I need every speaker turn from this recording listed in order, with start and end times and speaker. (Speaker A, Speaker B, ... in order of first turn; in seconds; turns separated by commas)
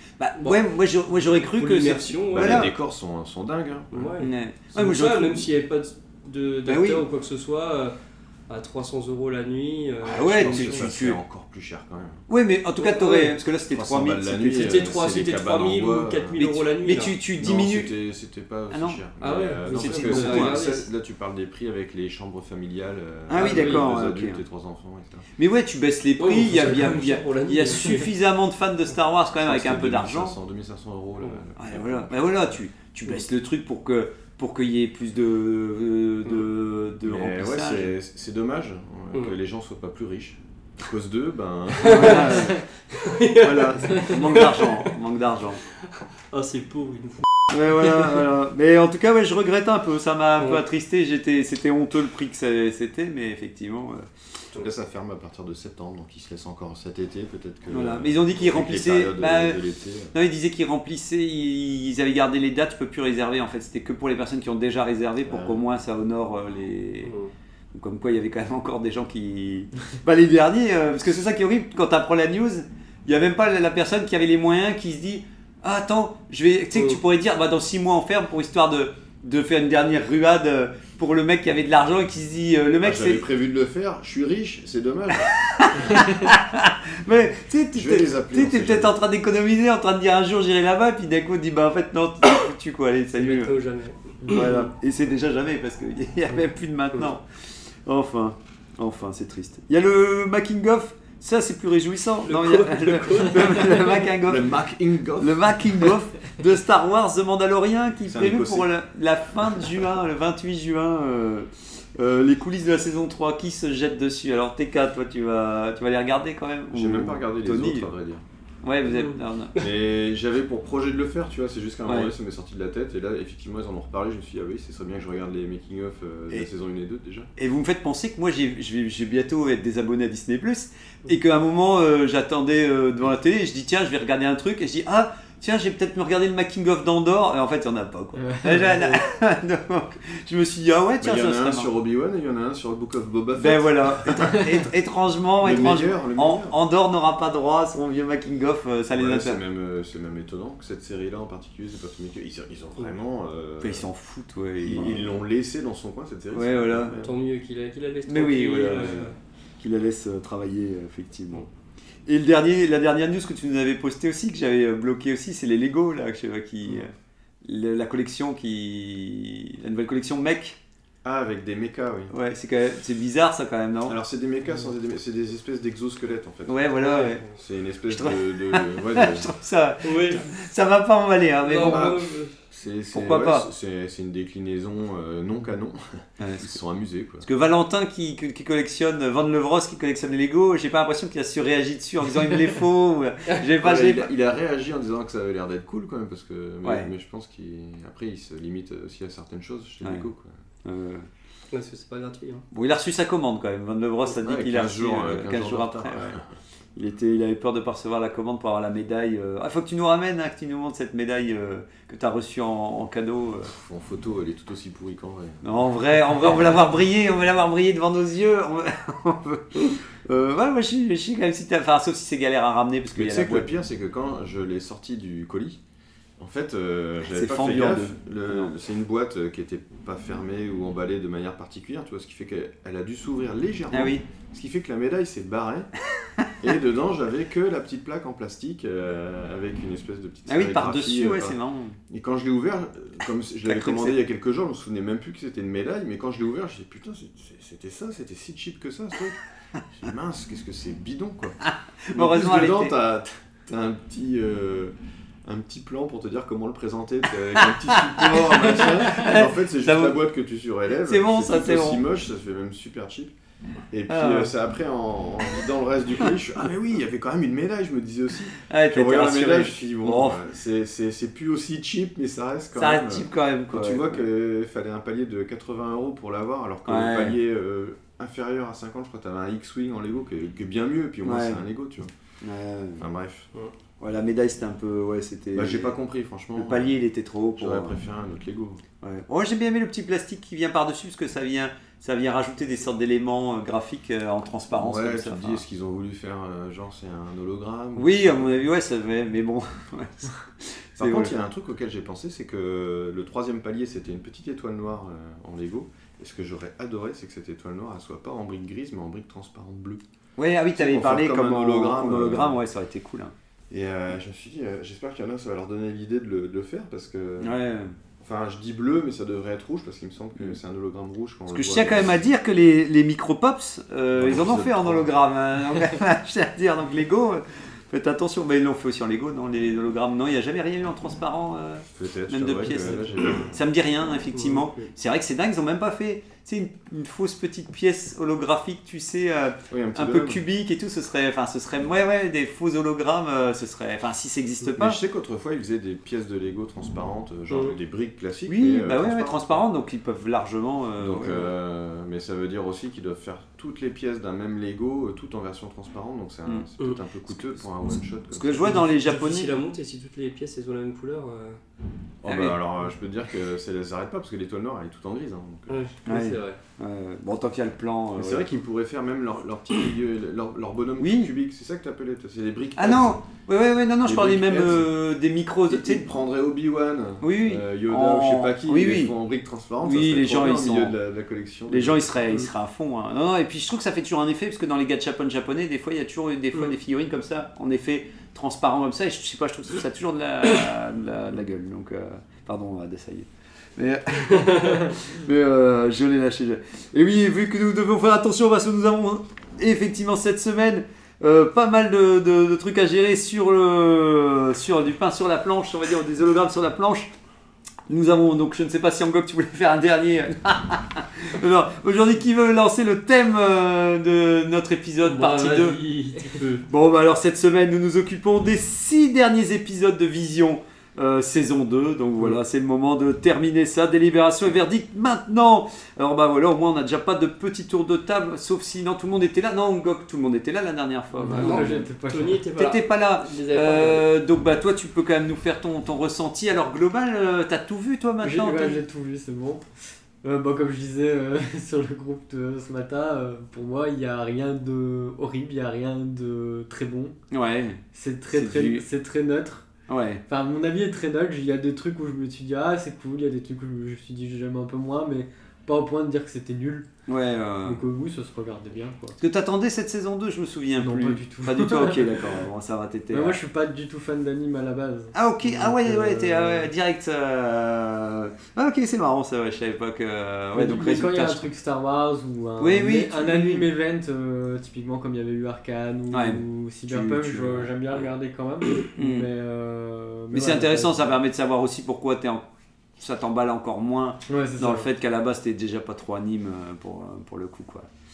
Speaker A: 0.2-2.7, Speaker B: 1.3-2.7, Speaker C: 2.3-4.1, Speaker B: 3.9-8.0, Speaker A: 4.2-5.4, Speaker A: 6.7-7.0, Speaker B: 8.5-10.9, Speaker A: 10.0-11.2, Speaker C: 10.2-12.2, Speaker A: 12.3-14.9, Speaker B: 12.8-13.4, Speaker C: 13.7-16.6, Speaker B: 14.5-17.2, Speaker A: 16.8-17.9, Speaker C: 17.4-25.2, Speaker A: 18.7-19.0, Speaker B: 19.2-20.9, Speaker A: 19.7-20.7, Speaker A: 23.3-24.4, Speaker B: 23.3-23.9, Speaker A: 25.4-30.4, Speaker B: 26.2-28.1, Speaker C: 29.4-32.6, Speaker A: 31.6-37.9, Speaker C: 37.0-42.5, Speaker B: 41.8-44.9, Speaker A: 41.9-42.6, Speaker A: 43.4-45.6, Speaker B: 46.3-48.2, Speaker A: 47.5-54.1, Speaker B: 50.4-50.6, Speaker C: 54.5-60.1, Speaker A: 57.7-59.6, Speaker A: 60.1-67.1, Speaker C: 65.2-65.6, Speaker B: 67.0-67.3, Speaker A: 67.7-83.2, Speaker B: 76.7-77.0, Speaker C: 82.8-85.3, Speaker A: 85.2-93.5, Speaker C: 87.7-89.0, Speaker B: 93.1-94.7, Speaker A: 94.3-97.2, Speaker A: 97.9-104.5, Speaker B: 102.2-104.1, Speaker C: 104.2-105.9, Speaker A: 105.2-117.9, Speaker C: 108.1-108.7, Speaker C: 116.7-118.2, Speaker A: 118.6-119.6, Speaker B: 118.8-119.2, Speaker C: 119.6-127.3, Speaker A: 121.9-122.1, Speaker A: 127.4-141.7, Speaker D: 138.2-138.9, Speaker C: 141.0-144.6, Speaker A: 143.4-149.4, Speaker C: 145.4-146.6, Speaker C: 148.9-153.9, Speaker A: 153.6-155.1, Speaker C: 154.6-157.2, Speaker A: 156.3-156.9, Speaker B: 157.0-159.2, Speaker A: 158.1-161.5, Speaker A: 162.1-166.9, Speaker A: 167.4-170.6, Speaker C: 171.0-172.1, Speaker A: 172.1-174.0, Speaker C: 173.9-176.7, Speaker A: 176.5-177.2, Speaker B: 176.8-177.4, Speaker C: 177.3-179.3, Speaker A: 177.9-182.0, Speaker B: 179.8-180.3, Speaker B: 181.4-182.3, Speaker C: 181.6-187.3, Speaker A: 182.9-183.4, Speaker A: 186.2-186.6, Speaker A: 187.2-194.1, Speaker C: 193.6-200.3, Speaker A: 200.6-201.1, Speaker B: 201.5-202.4, Speaker A: 202.5-206.2, Speaker C: 204.1-206.2, Speaker A: 206.8-213.5, Speaker C: 213.5-215.5, Speaker A: 215.4-223.5, Speaker C: 222.9-225.6, Speaker C: 226.2-235.7, Speaker A: 227.1-228.5, Speaker A: 233.7-234.0, Speaker C: 236.4-241.4, Speaker A: 240.3-241.8, Speaker C: 241.9-249.2, Speaker A: 243.5-244.0, Speaker C: 249.7-251.4, Speaker A: 251.4-252.7, Speaker C: 251.9-254.7, Speaker C: 255.2-263.1, Speaker A: 257.7-260.0, Speaker A: 260.9-261.8, Speaker C: 263.7-281.9, Speaker A: 263.9-264.3, Speaker A: 268.5-270.2, Speaker A: 272.6-274.0, Speaker A: 276.7-277.2, Speaker A: 281.0-281.4, Speaker A: 282.2-282.9, Speaker C: 282.8-283.3, Speaker A: 283.8-285.7, Speaker C: 285.3-286.8, Speaker A: 286.4-287.7, Speaker C: 287.4-288.6, Speaker A: 288.8-295.4, Speaker C: 294.5-298.4, Speaker A: 297.8-301.1, Speaker C: 300.8-309.8, Speaker A: 310.2-313.1, Speaker C: 310.5-312.4, Speaker C: 313.5-317.4, Speaker A: 317.2-317.8, Speaker C: 318.0-322.0, Speaker A: 321.3-344.8, Speaker C: 323.9-324.9, Speaker C: 331.7-333.4, Speaker B: 334.1-334.7, Speaker C: 339.5-340.2, Speaker C: 344.5-349.4, Speaker B: 347.3-347.6, Speaker A: 348.3-351.3, Speaker C: 350.8-358.6, Speaker A: 357.1-359.4, Speaker B: 358.4-361.4, Speaker C: 362.0-365.6, Speaker A: 362.1-362.4, Speaker B: 365.5-366.4, Speaker A: 365.9-368.3, Speaker C: 368.0-373.1, Speaker A: 370.8-371.1, Speaker A: 372.6-375.9, Speaker C: 373.8-374.8, Speaker C: 375.5-382.0, Speaker A: 377.0-378.9, Speaker A: 379.6-380.7, Speaker A: 381.5-406.9, Speaker A: 407.7-415.6, Speaker B: 414.8-416.5, Speaker A: 416.5-431.6, Speaker D: 431.0-432.2, Speaker B: 431.1-433.9, Speaker A: 432.4-438.6, Speaker D: 438.0-439.4, Speaker D: 440.0-447.0, Speaker A: 447.1-448.7, Speaker D: 447.7-449.5, Speaker A: 449.7-450.0, Speaker D: 450.1-456.7, Speaker A: 456.9-457.6, Speaker D: 457.4-459.0, Speaker A: 459.0-463.2, Speaker D: 460.6-461.9, Speaker D: 462.9-466.5, Speaker A: 464.9-471.2, Speaker D: 470.3-480.8, Speaker A: 472.4-473.5, Speaker A: 475.9-477.8, Speaker A: 478.8-479.1, Speaker A: 480.1-482.3, Speaker A: 482.8-487.7, Speaker D: 484.1-484.7